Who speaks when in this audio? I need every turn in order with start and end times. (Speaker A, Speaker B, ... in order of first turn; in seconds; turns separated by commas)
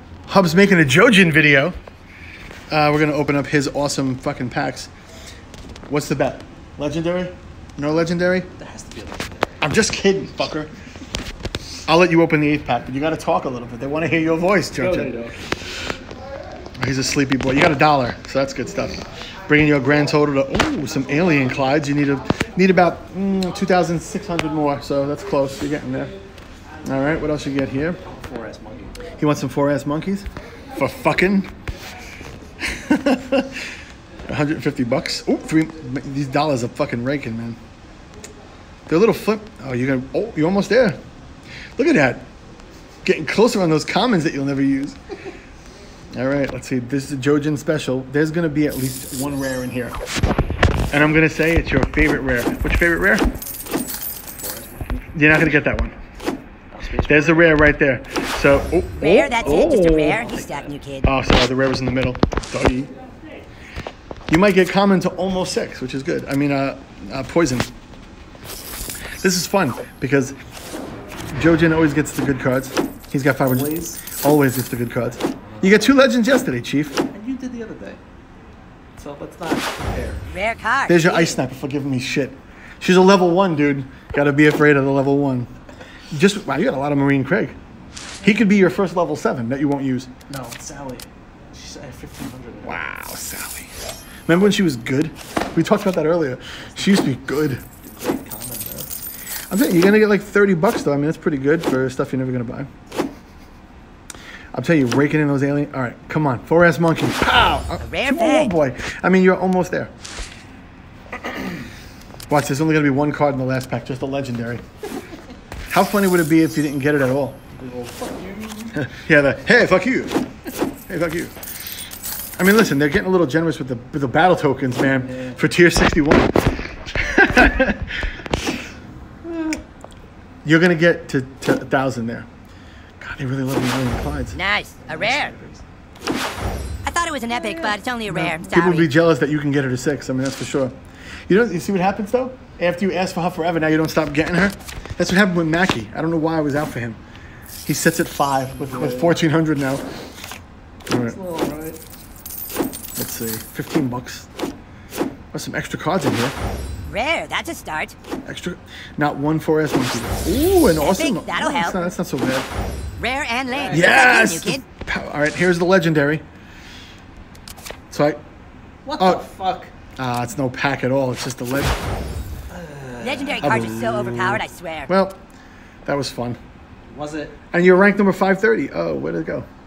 Speaker A: 0.3-1.8, Speaker A: 2.7-4.9, Speaker A: 5.9-8.5, Speaker B: 8.6-9.6, Speaker A: 9.6-10.7, Speaker A: 11.9-15.1, Speaker B: 14.8-15.4, Speaker A: 16.8-26.1, Speaker A: 26.9-28.0, Speaker B: 28.2-29.0, Speaker A: 29.2-31.5, Speaker A: 32.6-33.6, Speaker A: 34.3-37.6, Speaker A: 38.9-41.0, Speaker A: 41.8-42.3, Speaker A: 43.0-45.0, Speaker A: 46.1-50.0, Speaker A: 50.9-53.3, Speaker B: 54.3-55.4, Speaker A: 55.1-56.0, Speaker B: 56.7-57.6, Speaker A: 57.1-59.9, Speaker C: 59.0-61.1, Speaker B: 59.4-60.8, Speaker A: 61.0-62.9, Speaker A: 64.3-67.7, Speaker A: 69.2-70.4, Speaker A: 71.3-77.0, Speaker B: 73.4-74.0, Speaker B: 75.3-75.7, Speaker B: 77.0-78.0, Speaker B: 79.0-80.3, Speaker C: 80.3-81.4, Speaker A: 80.9-85.5, Speaker A: 86.1-87.6, Speaker A: 88.2-90.1, Speaker B: 90.3-92.8, Speaker A: 92.6-93.7, Speaker A: 94.3-97.6, Speaker B: 96.6-99.0, Speaker A: 99.5-102.7, Speaker A: 104.5-109.9, Speaker C: 107.8-108.5, Speaker A: 112.3-114.6, Speaker A: 115.7-117.4, Speaker B: 117.5-118.8, Speaker A: 118.8-120.1, Speaker A: 120.9-121.3, Speaker A: 122.4-126.4, Speaker B: 124.8-125.4, Speaker A: 127.0-128.0, Speaker B: 129.3-129.6, Speaker A: 130.4-132.3, Speaker A: 133.0-134.4, Speaker C: 134.3-135.3, Speaker B: 134.8-135.6, Speaker C: 136.8-138.9, Speaker A: 138.1-140.7, Speaker A: 141.3-147.0, Speaker A: 147.7-149.8, Speaker B: 148.6-149.2, Speaker A: 150.9-151.2, Speaker B: 151.1-151.8, Speaker A: 153.0-154.3, Speaker A: 155.3-156.3, Speaker C: 156.9-157.9, Speaker A: 158.3-162.5, Speaker C: 160.8-161.9, Speaker C: 163.0-164.7, Speaker B: 163.5-164.1, Speaker A: 163.7-166.2, Speaker A: 167.9-168.2, Speaker B: 168.9-169.7, Speaker A: 170.0-171.8, Speaker B: 172.5-174.0, Speaker C: 173.0-174.9, Speaker A: 173.4-175.2, Speaker A: 175.9-176.4, Speaker B: 176.9-177.4, Speaker A: 177.5-179.5